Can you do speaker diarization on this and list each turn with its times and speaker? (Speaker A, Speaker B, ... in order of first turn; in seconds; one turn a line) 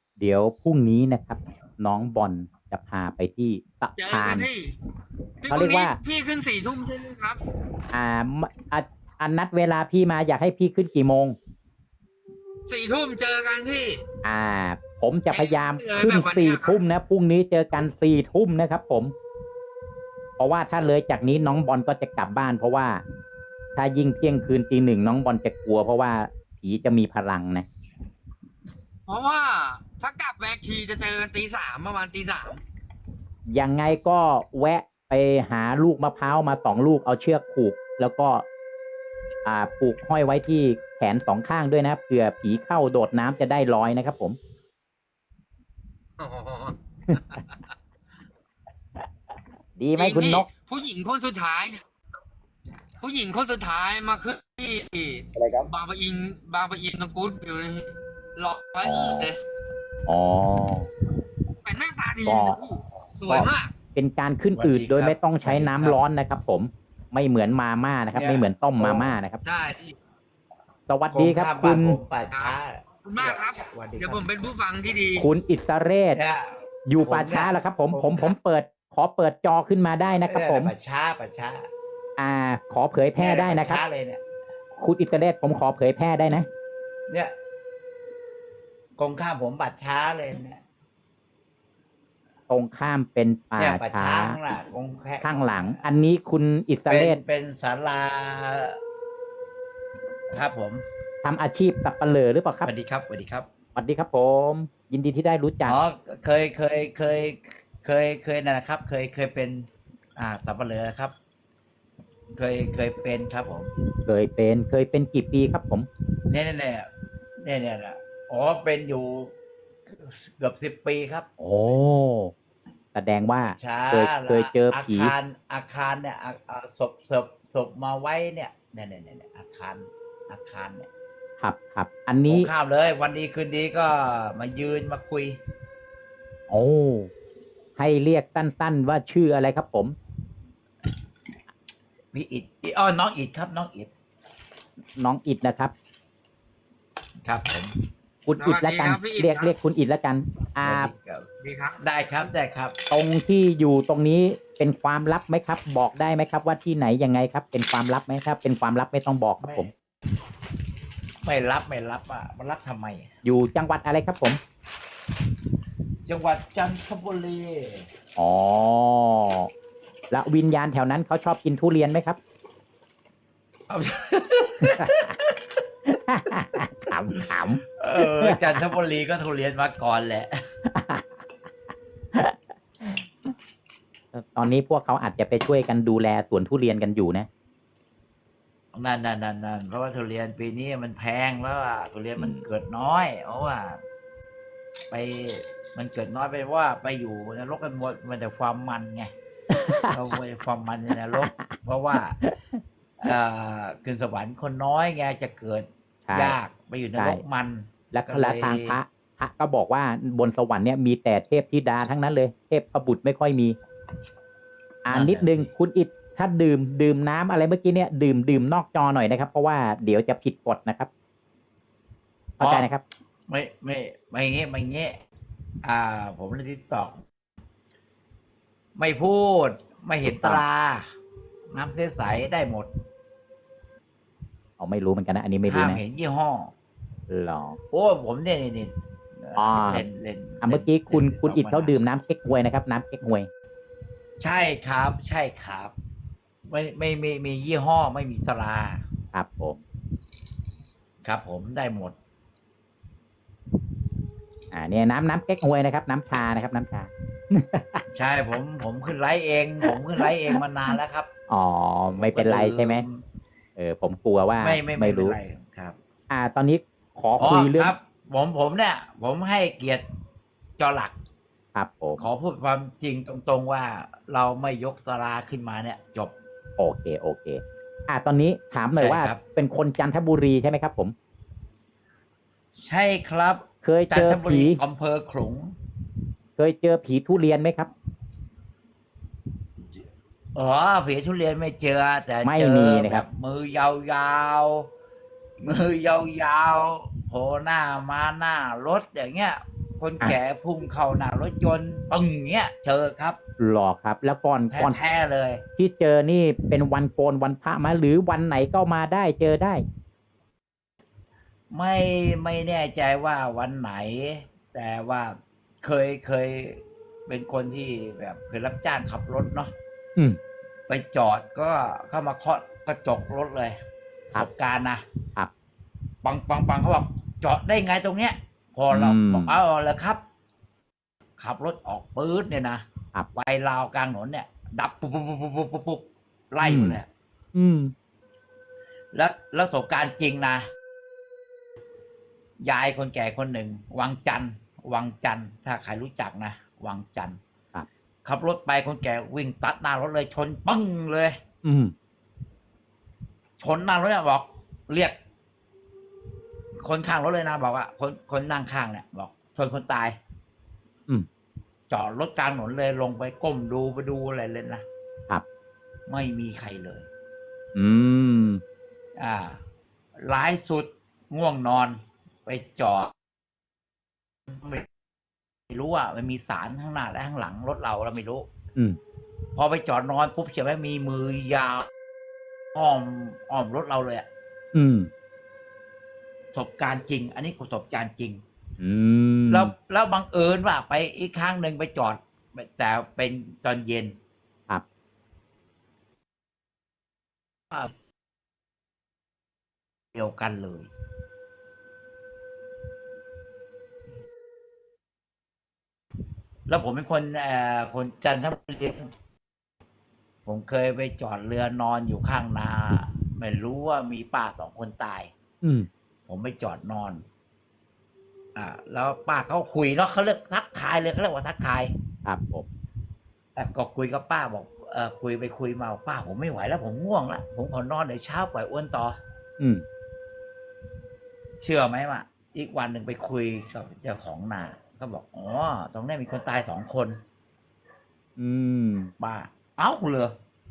Speaker A: 0.2-4.5
Speaker B: 4.0-4.7
Speaker B: 5.4-7.4
Speaker A: 5.5-6.0
Speaker A: 7.9-11.3
Speaker B: 12.7-14.0
Speaker A: 14.2-19.1
Speaker B: 15.3-16.8
Speaker A: 20.4-23.0
Speaker A: 23.8-27.6
Speaker B: 29.1-32.6
Speaker A: 33.5-38.4
Speaker A: 39.4-44.4
Speaker B: 46.2-46.8
Speaker A: 47.1-47.4
Speaker A: 49.8-50.5
Speaker B: 50.0-51.8
Speaker B: 53.0-59.4
Speaker C: 55.3-55.7
Speaker A: 58.8-59.3
Speaker A: 60.1-60.9
Speaker B: 61.6-63.7
Speaker A: 62.2-62.6
Speaker A: 63.3-69.4
Speaker C: 64.6-66.0
Speaker C: 68.1-69.2
Speaker B: 69.4-69.9
Speaker A: 70.9-72.0
Speaker C: 71.1-74.3
Speaker B: 72.3-75.3
Speaker A: 75.2-76.2
Speaker C: 76.1-78.3
Speaker A: 76.8-80.7
Speaker C: 80.2-81.7
Speaker A: 82.2-83.8
Speaker C: 83.2-84.2
Speaker A: 84.8-86.5
Speaker C: 89.0-90.6
Speaker A: 92.5-94.4
Speaker C: 93.6-95.8
Speaker A: 95.2-97.2
Speaker C: 96.9-98.8
Speaker C: 100.3-100.8
Speaker A: 101.2-102.7
Speaker C: 102.6-103.5
Speaker A: 103.8-105.8
Speaker C: 105.7-111.1
Speaker C: 112.3-113.7
Speaker A: 114.1-115.9
Speaker C: 116.3-119.3
Speaker C: 119.9-121.3
Speaker A: 121.4-122.3
Speaker A: 122.9-125.1
Speaker C: 123.6-130.9
Speaker A: 131.4-132.5
Speaker C: 132.3-135.4
Speaker A: 136.5-137.1
Speaker A: 137.8-139.9
Speaker C: 142.1-143.9
Speaker A: 145.0-145.7
Speaker C: 147.2-147.7
Speaker A: 148.2-150.9
Speaker B: 148.4-149.5
Speaker C: 150.6-152.8
Speaker B: 151.4-151.7
Speaker A: 152.9-159.7
Speaker C: 159.4-159.7
Speaker C: 161.2-163.1
Speaker A: 163.2-164.4
Speaker C: 166.1-167.9
Speaker A: 168.2-169.5
Speaker A: 170.1-172.2
Speaker C: 173.7-175.4
Speaker A: 174.6-174.9
Speaker A: 175.8-178.6
Speaker C: 177.1-180.4
Speaker A: 180.7-181.2
Speaker A: 182.1-183.3
Speaker A: 184.1-187.3
Speaker C: 188.7-193.8
Speaker A: 192.2-192.4
Speaker C: 194.9-199.1
Speaker A: 199.5-200.0
Speaker C: 199.9-202.2
Speaker A: 201.1-202.6
Speaker C: 203.0-208.8
Speaker A: 206.1-206.4
Speaker A: 207.0-207.2
Speaker A: 207.9-213.5
Speaker A: 214.8-220.9
Speaker C: 214.9-215.5
Speaker C: 222.4-222.7
Speaker A: 222.4-222.8
Speaker C: 223.3-224.9
Speaker C: 225.6-227.0
Speaker C: 228.8-230.8
Speaker A: 230.0-230.4
Speaker C: 231.5-232.7
Speaker A: 234.6-235.8
Speaker C: 235.4-236.5
Speaker A: 237.1-237.6
Speaker C: 237.7-241.8
Speaker A: 239.3-239.8
Speaker A: 240.4-243.3
Speaker C: 244.2-245.7
Speaker C: 246.5-248.8
Speaker A: 249.1-249.6
Speaker C: 251.0-251.9
Speaker A: 254.5-257.8
Speaker C: 257.9-261.1
Speaker A: 259.6-260.1
Speaker A: 261.3-262.8
Speaker C: 261.9-263.0
Speaker A: 263.6-265.2
Speaker C: 264.4-265.8
Speaker A: 266.1-267.7
Speaker C: 267.2-269.8
Speaker C: 270.6-270.9
Speaker A: 271.5-272.0
Speaker C: 272.0-276.1
Speaker A: 276.6-280.9
Speaker C: 278.7-279.2
Speaker C: 282.6-285.5
Speaker A: 283.6-284.6
Speaker A: 286.4-287.7
Speaker C: 290.3-294.7
Speaker A: 292.2-293.1
Speaker C: 295.4-303.2
Speaker A: 303.4-304.8
Speaker C: 304.5-305.4
Speaker A: 305.6-309.6
Speaker C: 311.5-319.5
Speaker C: 320.7-323.6
Speaker C: 324.1-324.8
Speaker C: 326.0-330.0
Speaker A: 328.7-329.4
Speaker C: 331.2-332.6
Speaker C: 333.1-336.9
Speaker A: 336.4-336.8
Speaker A: 337.3-337.7
Speaker C: 338.9-340.5
Speaker C: 342.4-347.2
Speaker C: 348.0-351.2
Speaker A: 351.4-351.7
Speaker C: 353.4-354.9
Speaker C: 356.6-360.0
Speaker C: 361.7-364.6
Speaker C: 365.9-366.9
Speaker A: 367.5-368.4
Speaker C: 368.9-369.4
Speaker C: 369.9-372.9
Speaker C: 374.3-374.6
Speaker C: 375.5-378.3
Speaker C: 379.3-381.7
Speaker C: 382.5-384.1
Speaker A: 384.5-384.9
Speaker C: 386.3-388.2
Speaker A: 388.6-389.5
Speaker C: 389.3-394.0
Speaker C: 399.9-400.7
Speaker C: 406.5-408.9
Speaker C: 410.2-415.1
Speaker A: 415.4-415.7
Speaker C: 416.1-417.0
Speaker C: 418.3-421.7
Speaker A: 422.1-422.4
Speaker C: 423.4-429.0
Speaker C: 431.4-437.0
Speaker A: 438.2-438.9
Speaker C: 439.0-440.1